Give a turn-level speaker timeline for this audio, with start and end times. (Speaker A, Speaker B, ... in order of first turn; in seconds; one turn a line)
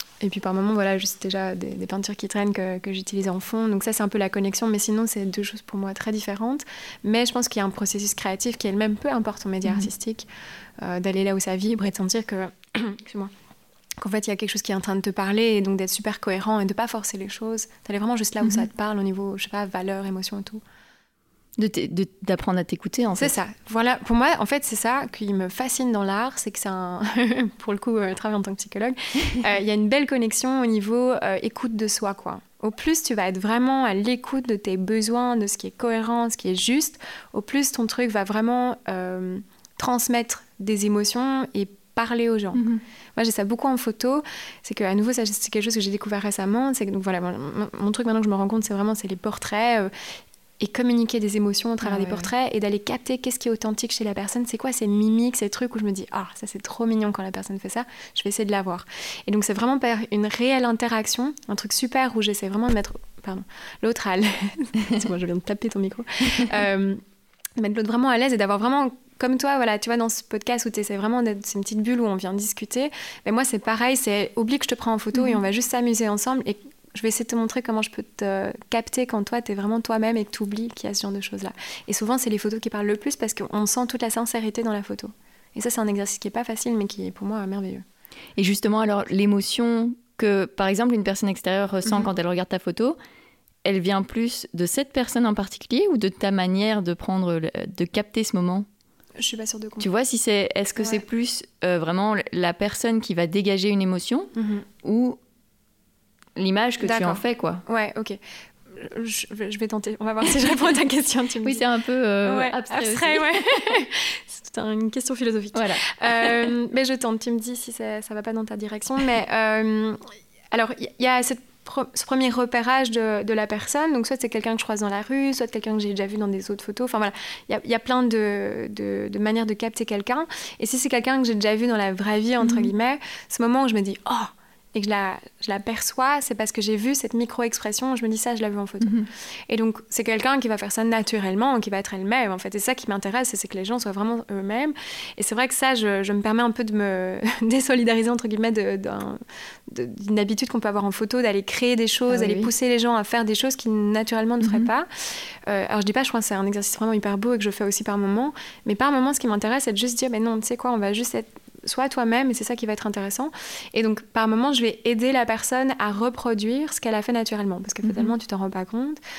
Speaker A: 0.2-10.3
Speaker A: 10.8-13.3
Speaker A: 14.0-20.6
Speaker B: 18.4-18.7
Speaker B: 21.6-23.3
Speaker A: 23.2-42.6
Speaker B: 42.5-42.8
Speaker A: 43.1-49.9
Speaker A: 50.6-67.0
Speaker B: 51.8-52.3
Speaker A: 67.6-87.8
Speaker B: 75.1-75.4
Speaker B: 88.4-93.0
Speaker B: 93.6-98.7
Speaker A: 99.2-99.9
Speaker B: 99.8-104.3
Speaker A: 100.8-101.0
Speaker A: 104.3-104.6
Speaker B: 104.8-105.2
Speaker B: 106.4-107.6
Speaker A: 106.8-108.2
Speaker A: 108.7-111.6
Speaker B: 111.4-113.3
Speaker A: 112.2-120.0
Speaker B: 115.5-116.5
Speaker A: 120.5-169.0
Speaker B: 132.4-132.7
Speaker B: 138.8-139.1
Speaker B: 152.1-152.5
Speaker B: 154.4-154.7
Speaker B: 167.8-168.1